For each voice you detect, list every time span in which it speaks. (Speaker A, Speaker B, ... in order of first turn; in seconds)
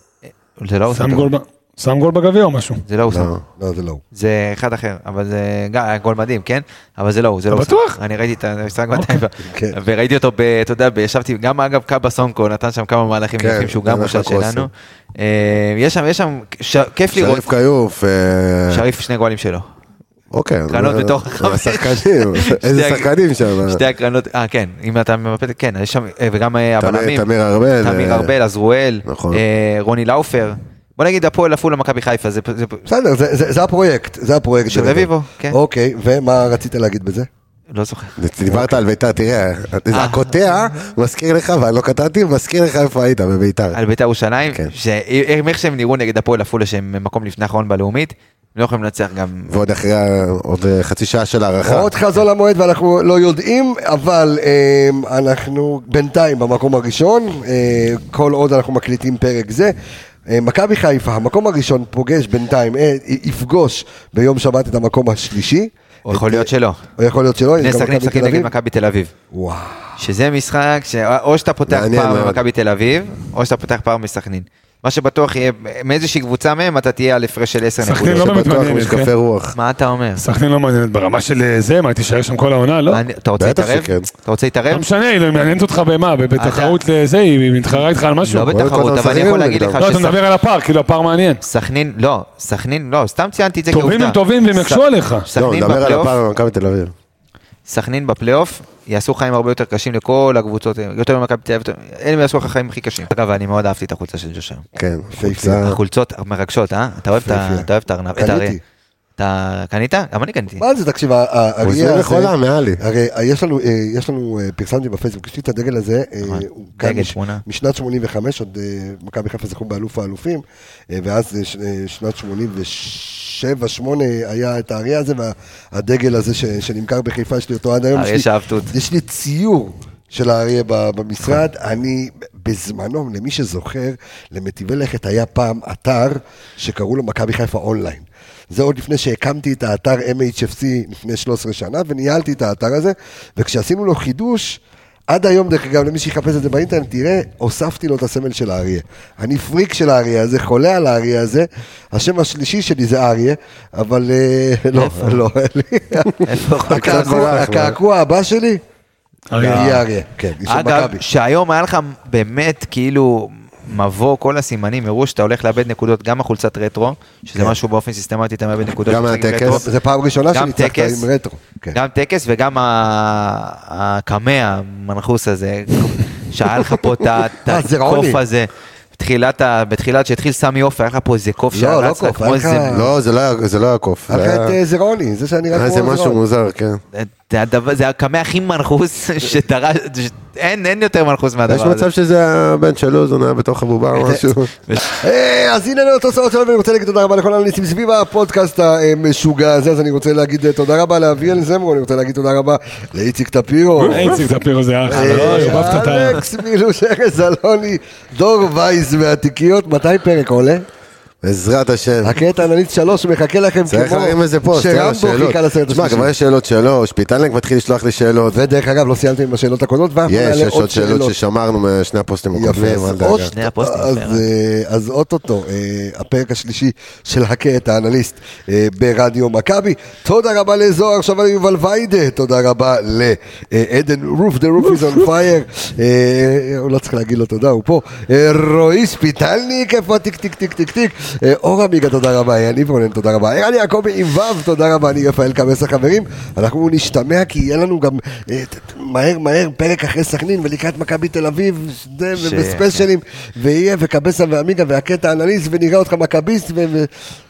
Speaker A: 0.3-1.3, 2.9-3.3, 4.1-17.4, 18.7-19.7, 20.7-23.1, 23.6-27.2, 27.8-32.8, 34.7-35.6, 37.7-38.2, 39.9-40.6, 43.7-49.5, 66.1-66.8, 67.6-69.1, 70.0-78.5, 79.5-80.2, 82.9-84.8, 86.3-86.8, 88.2-90.2, 91.4-96.1, 97.7-104.7, 105.6-108.6, 109.2-110.6, 116.2-117.4, 127.9-128.7, 154.7-155.2, 156.2-157.4, 160.5-169.7, 170.3-171.1, 171.7-182.8, 186.9-191.8, 205.0-205.6, 223.2-224.2, 252.1-252.8
Speaker B: 0.9-2.8, 7.5-8.0, 8.9-9.2, 77.8-79.1, 80.2-83.0, 84.7-88.6, 89.8-91.4, 93.7-95.3, 159.3-159.8, 203.8-206.2
Speaker C: 3.1-3.4, 13.4-14.7, 17.1-18.9, 20.3-23.8, 26.8-28.3, 29.1-29.4, 38.2-43.8, 49.5-51.9, 71.7-72.4, 78.0-79.5, 83.4-84.1, 88.4-89.8, 95.3-96.9, 104.7-105.8, 111.6-112.8, 156.7-157.8, 168.8-169.7, 182.7-184.6, 185.5-186.8, 191.5-194.5, 211.2-212.2, 213.7-218.4, 220.1-223.3
Speaker D: 3.6-4.0, 9.4-9.7, 32.9-37.3, 38.5-38.8, 51.6-59.7, 60.3-68.5, 69.3-69.9, 105.1-105.6, 107.2-108.6, 110.6-158.6, 159.4-161.0, 169.4-171.8, 177.5-178.2, 181.5-182.9, 184.1-186.2, 194.9-204.2, 204.9-210.7, 212.0-216.1, 218.3-221.1, 222.3-256.9